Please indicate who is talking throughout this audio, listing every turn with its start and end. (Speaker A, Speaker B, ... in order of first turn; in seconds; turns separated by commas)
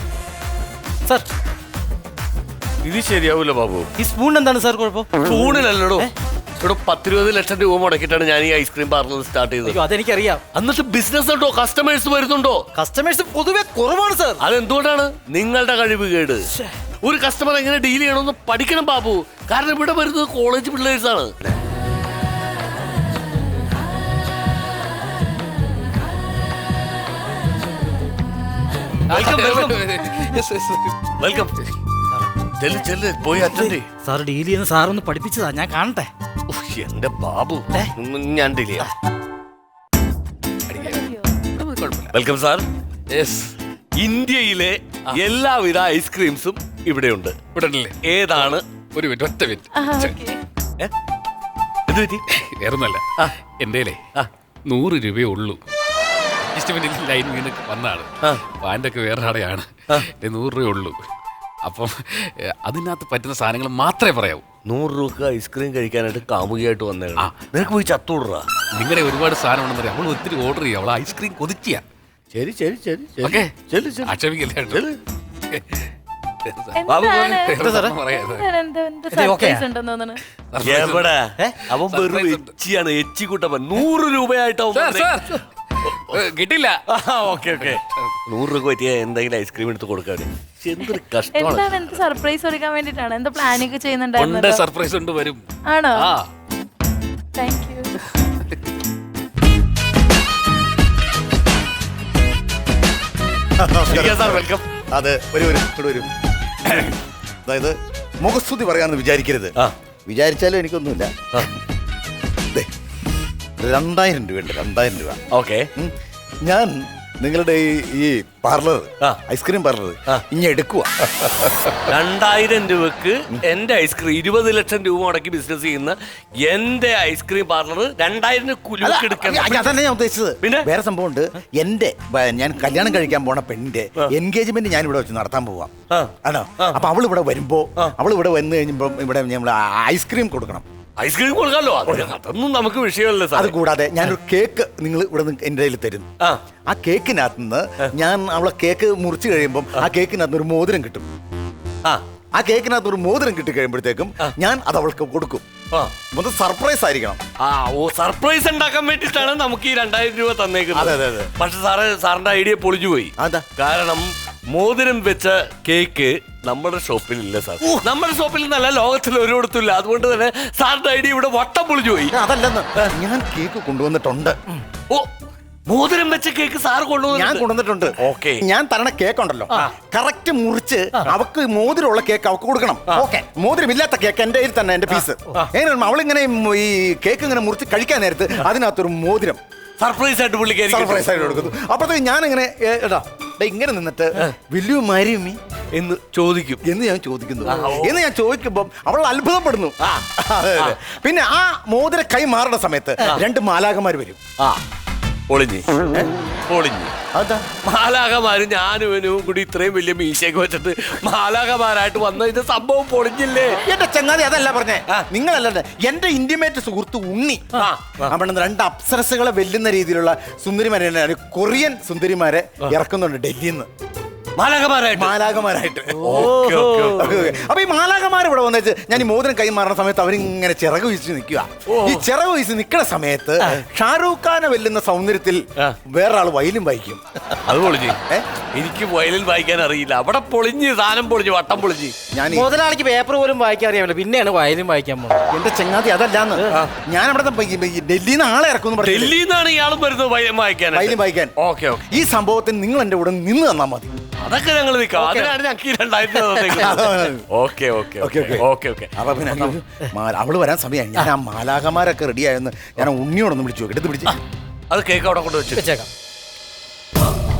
Speaker A: 2.8-3.9, Speaker B: 4.0-6.1, Speaker A: 5.2-9.8, Speaker B: 9.6-10.4, Speaker A: 10.5-12.6, Speaker B: 12.7-14.4, Speaker A: 14.4-16.4, Speaker A: 17.0-21.5, Speaker C: 29.1-31.1, Speaker A: 29.1-30.0, Speaker A: 31.2-31.6, Speaker A: 32.6-33.9, Speaker B: 33.4-36.1, Speaker A: 36.5-38.9, Speaker C: 40.7-42.1, Speaker D: 40.7-41.5, Speaker A: 42.1-43.5, Speaker A: 44.0-47.4, Speaker C: 47.5-48.0, Speaker A: 48.0-48.6, Speaker C: 48.9-50.2, Speaker D: 49.7-50.4, Speaker A: 51.9-52.2, Speaker C: 52.3-53.0, Speaker C: 53.6-54.0, Speaker C: 54.6-55.6, Speaker C: 56.5-58.1, Speaker C: 58.6-61.0, Speaker C: 61.6-64.4, Speaker A: 64.7-68.5, Speaker C: 68.8-71.8, Speaker A: 72.3-74.1, Speaker C: 74.0-74.8, Speaker A: 74.7-75.0, Speaker D: 76.8-80.2, Speaker A: 76.9-77.5, Speaker C: 77.4-78.5, Speaker B: 77.6-78.0, Speaker B: 79.1-79.7, Speaker C: 80.5-81.1, Speaker A: 80.6-85.1, Speaker C: 81.8-82.5, Speaker C: 84.7-86.8, Speaker A: 86.9-92.0, Speaker C: 87.5-88.1, Speaker D: 91.3-94.7, Speaker C: 94.2-96.2, Speaker D: 95.7-96.1, Speaker D: 97.3-98.0, Speaker E: 103.6-106.1, Speaker A: 103.9-104.7, Speaker E: 106.6-109.5, Speaker E: 110.1-111.1, Speaker E: 113.6-115.2, Speaker A: 115.3-115.7, Speaker E: 115.8-120.9, Speaker A: 121.1-129.8, Speaker E: 128.8-135.7, Speaker A: 130.4-130.7, Speaker A: 135.9-136.8, Speaker E: 136.2-140.6, Speaker A: 141.0-143.5, Speaker E: 143.3-146.1, Speaker E: 146.7-151.1, Speaker E: 152.3-155.4, Speaker E: 156.1-157.2, Speaker A: 157.4-172.2, Speaker E: 160.7-161.3, Speaker E: 163.2-163.4, Speaker E: 172.1-174.4, Speaker A: 175.7-177.4, Speaker E: 177.1-189.4, Speaker A: 178.0-178.4, Speaker A: 189.8-191.5, Speaker E: 190.7-195.4, Speaker A: 195.7-196.6, Speaker E: 196.6-204.2, Speaker A: 197.4-198.0, Speaker A: 205.3-206.9, Speaker E: 207.1-207.6, Speaker A: 207.6-213.6, Speaker E: 213.6-223.7, Speaker A: 217.6-218.1, Speaker A: 224.4-225.2, Speaker E: 224.9-226.4, Speaker B: 226.0-227.1, Speaker A: 226.0-227.4, Speaker E: 227.0-237.0, Speaker A: 231.7-232.0, Speaker A: 237.3-238.0, Speaker A: 238.5-241.9, Speaker E: 242.1-242.5, Speaker B: 242.3-245.2, Speaker E: 245.3-249.2, Speaker A: 248.8-251.9, Speaker E: 250.7-251.3, Speaker E: 251.9-253.9, Speaker A: 254.2-258.9, Speaker B: 254.9-255.3, Speaker E: 256.6-257.2, Speaker E: 258.0-258.4, Speaker E: 258.9-264.2, Speaker A: 264.7-265.7, Speaker B: 265.5-265.9